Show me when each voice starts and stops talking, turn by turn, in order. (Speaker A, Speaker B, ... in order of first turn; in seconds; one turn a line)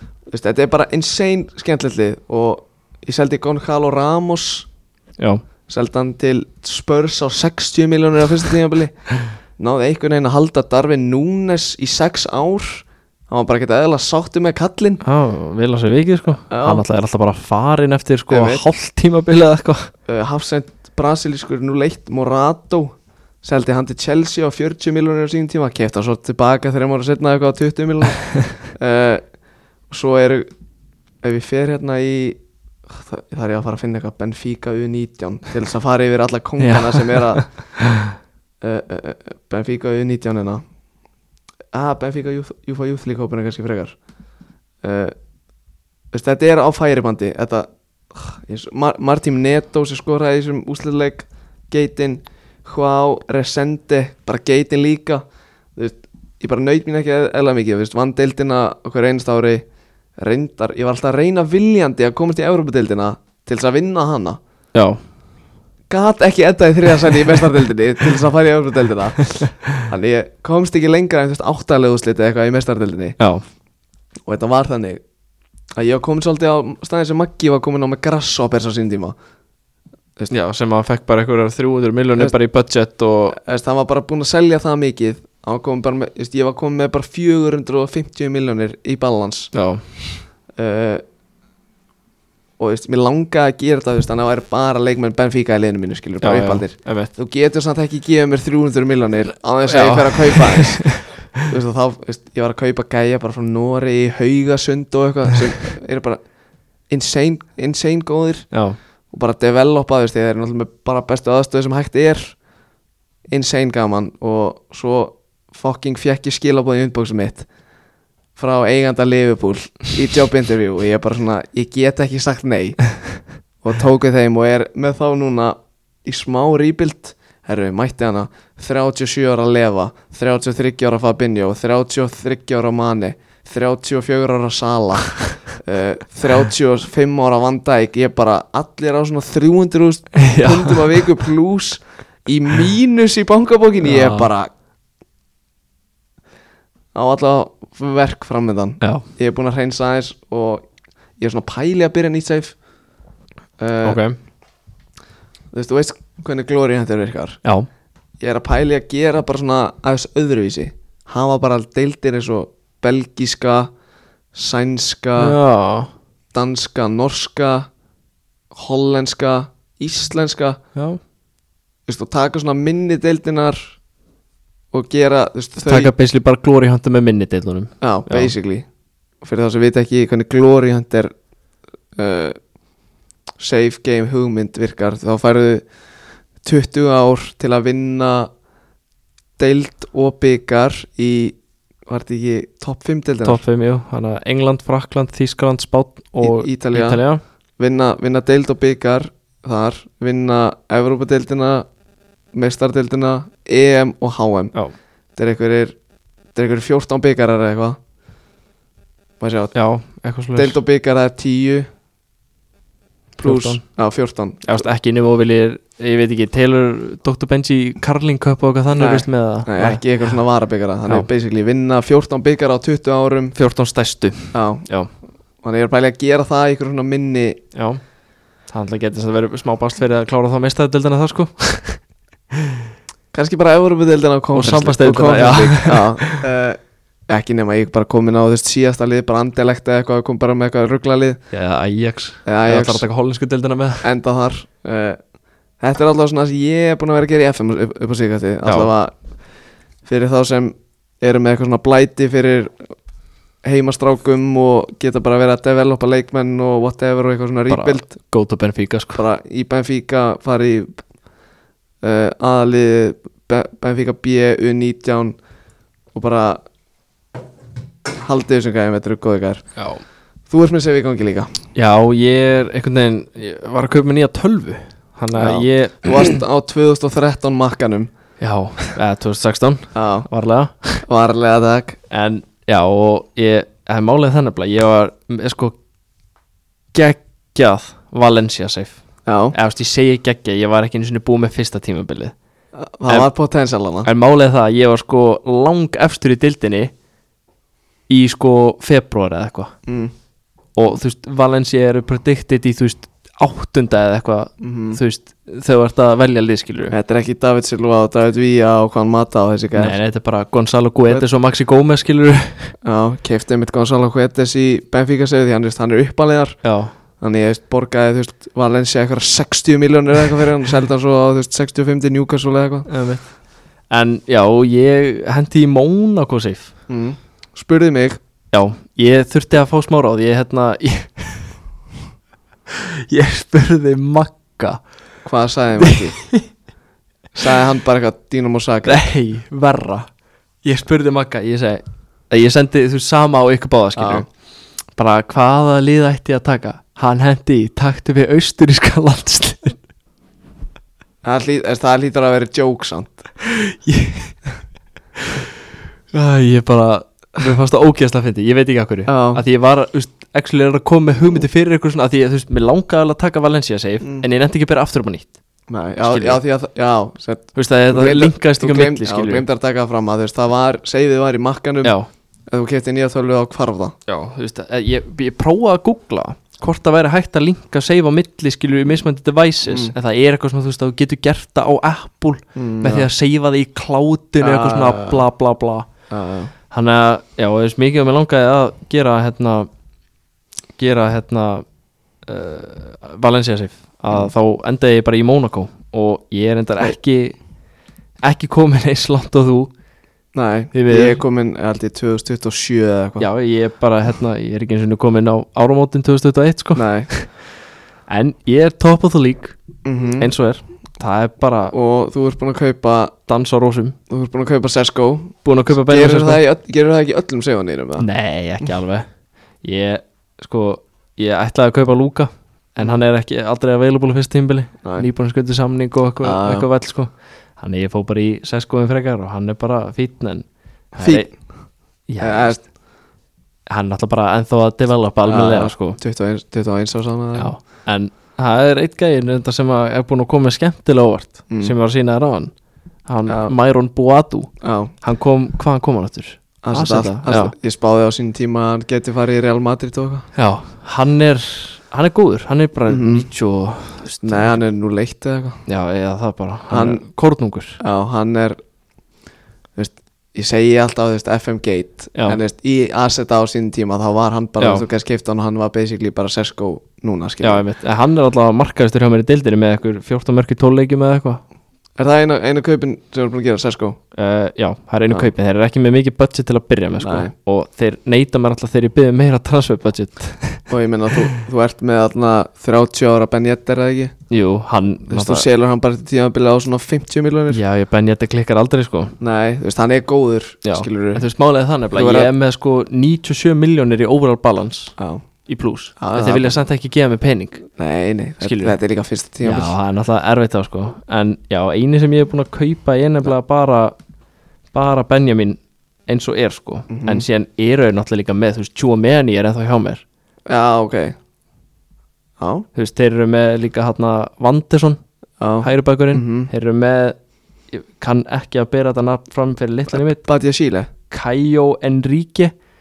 Speaker A: 0.3-4.7
Speaker A: 5.7-9.0
Speaker A: 9.6-15.0
Speaker B: 15.0-19.9
Speaker A: 16.5-16.8
Speaker A: 18.3-18.6
Speaker A: 20.1-29.2
Speaker A: 29.9-30.5
Speaker A: 31.2-37.5
Speaker B: 36.6-38.1
Speaker A: 38.6-40.6
Speaker A: 41.7-44.0
Speaker A: 44.8-45.1
Speaker A: 46.1-55.2
Speaker A: 55.8-59.6
Speaker A: 60.2-64.4
Speaker B: 64.7-65.0
Speaker A: 65.9-73.2
Speaker A: 74.3-75.0
Speaker A: 75.8-79.2
Speaker B: 80.3-83.4
Speaker A: 83.3-89.5
Speaker B: 89.5-90.2
Speaker A: 90.6-91.0
Speaker A: 92.6-106.2
Speaker B: 96.2-97.1
Speaker B: 99.7-101.4
Speaker A: 106.9-108.5
Speaker B: 108.5-108.8
Speaker A: 109.1-112.4
Speaker A: 113.3-117.5
Speaker A: 118.3-144.5
Speaker B: 140.2-141.0
Speaker B: 143.8-144.3
Speaker A: 146.9-150.6
Speaker A: 151.2-152.6
Speaker A: 153.6-154.0
Speaker B: 153.8-154.2
Speaker A: 155.5-157.4
Speaker A: 158.2-163.7
Speaker A: 164.3-165.4
Speaker B: 165.2-165.9
Speaker A: 166.3-167.7
Speaker A: 168.5-170.6
Speaker A: 171.9-173.8
Speaker A: 174.7-175.9
Speaker B: 175.7-178.3
Speaker A: 177.8-178.7
Speaker A: 179.2-181.1
Speaker A: 181.9-182.4
Speaker A: 183.4-185.7
Speaker A: 186.4-188.3
Speaker A: 189.4-191.3
Speaker A: 191.9-193.4
Speaker B: 193.2-197.2
Speaker A: 196.2-197.0
Speaker A: 197.6-201.7
Speaker A: 202.3-204.5
Speaker A: 205.2-205.8
Speaker A: 206.3-207.8
Speaker A: 209.2-209.5
Speaker B: 209.5-210.6
Speaker A: 210.3-211.7
Speaker B: 213.2-213.6
Speaker A: 213.2-214.6
Speaker B: 214.4-219.8
Speaker A: 218.7-223.3
Speaker B: 223.3-224.9
Speaker A: 224.3-224.7
Speaker A: 225.4-227.4
Speaker B: 227.5-227.8
Speaker B: 228.5-231.8
Speaker B: 232.3-232.7
Speaker A: 233.1-241.2
Speaker B: 234.3-236.2
Speaker B: 241.3-243.9
Speaker A: 242.2-242.8
Speaker A: 243.8-245.0
Speaker A: 245.6-248.9
Speaker B: 248.4-248.7
Speaker A: 249.8-252.5
Speaker A: 253.4-257.9
Speaker B: 257.5-259.0
Speaker A: 258.9-260.8
Speaker A: 261.8-265.1
Speaker A: 265.9-266.4
Speaker A: 268.0-269.4
Speaker B: 269.6-269.8
Speaker A: 270.3-271.3
Speaker B: 271.5-276.2
Speaker A: 275.1-277.9
Speaker B: 278.2-280.8
Speaker A: 279.7-280.1
Speaker A: 280.8-281.8
Speaker B: 281.9-285.6
Speaker B: 286.7-288.8
Speaker A: 289.1-289.3
Speaker B: 289.3-292.1
Speaker A: 292.5-293.9
Speaker B: 293.8-296.7
Speaker B: 297.9-299.5
Speaker A: 299.6-299.9
Speaker B: 300.6-306.7
Speaker A: 304.4-304.8
Speaker A: 306.7-309.8
Speaker B: 309.6-312.5
Speaker A: 312.6-316.4
Speaker B: 316.4-316.7
Speaker A: 317.0-322.7
Speaker B: 322.7-323.0
Speaker B: 323.7-326.5
Speaker A: 326.7-328.0
Speaker B: 328.3-331.3
Speaker B: 332.5-334.6
Speaker A: 335.0-336.0
Speaker B: 335.6-336.2
Speaker A: 337.1-338.8
Speaker B: 338.6-339.9
Speaker B: 340.4-344.1
Speaker A: 343.8-344.0
Speaker B: 344.8-349.6
Speaker A: 351.0-353.0
Speaker B: 353.2-354.1
Speaker B: 354.9-355.3
Speaker B: 355.9-365.1
Speaker A: 358.9-359.2
Speaker A: 365.5-371.8
Speaker B: 365.8-366.2
Speaker B: 367.3-369.2
Speaker B: 371.6-371.9
Speaker A: 372.3-373.7
Speaker B: 373.9-385.7
Speaker A: 379.4-379.7
Speaker A: 382.4-382.9
Speaker A: 384.2-385.0
Speaker A: 385.9-386.3
Speaker B: 386.5-389.5
Speaker B: 390.6-391.4
Speaker B: 392.0-397.2
Speaker B: 398.0-399.5
Speaker A: 400.1-403.1
Speaker B: 400.5-401.0
Speaker B: 403.0-407.1
Speaker A: 406.5-406.9
Speaker B: 407.9-409.4
Speaker A: 409.6-410.1
Speaker B: 410.0-411.5
Speaker A: 411.5-412.9
Speaker B: 413.1-413.8
Speaker A: 413.9-417.9
Speaker B: 415.2-416.2
Speaker B: 417.8-418.9
Speaker B: 419.4-431.1
Speaker A: 424.6-424.9
Speaker A: 426.0-426.5
Speaker A: 430.8-431.1
Speaker B: 431.9-432.4
Speaker A: 432.0-432.4
Speaker B: 433.5-435.8
Speaker A: 435.1-437.4
Speaker B: 437.1-442.3
Speaker B: 442.9-447.3
Speaker A: 443.1-443.3
Speaker A: 444.4-444.7
Speaker A: 446.4-450.1
Speaker B: 450.1-454.4
Speaker A: 452.7-453.1
Speaker A: 454.0-455.4
Speaker B: 455.5-457.6
Speaker A: 456.5-456.8
Speaker A: 457.6-458.4
Speaker A: 459.6-467.4
Speaker B: 464.4-464.7
Speaker B: 467.2-471.2
Speaker A: 471.8-473.8
Speaker B: 473.9-480.4
Speaker A: 476.7-477.1
Speaker A: 480.5-483.9
Speaker B: 484.1-485.3
Speaker A: 484.9-487.4
Speaker B: 487.3-488.9
Speaker A: 489.0-491.1
Speaker B: 490.4-494.7
Speaker A: 491.7-492.1
Speaker A: 494.8-495.0
Speaker B: 495.2-497.4
Speaker A: 495.8-496.4
Speaker A: 497.6-499.5
Speaker B: 498.2-498.6
Speaker B: 499.2-503.7
Speaker B: 504.5-509.8
Speaker A: 506.7-507.1
Speaker A: 510.3-511.0
Speaker A: 512.2-512.5
Speaker B: 512.5-514.8
Speaker A: 515.2-516.3
Speaker B: 515.4-517.0
Speaker B: 517.5-520.0
Speaker A: 519.7-520.7
Speaker B: 520.9-522.3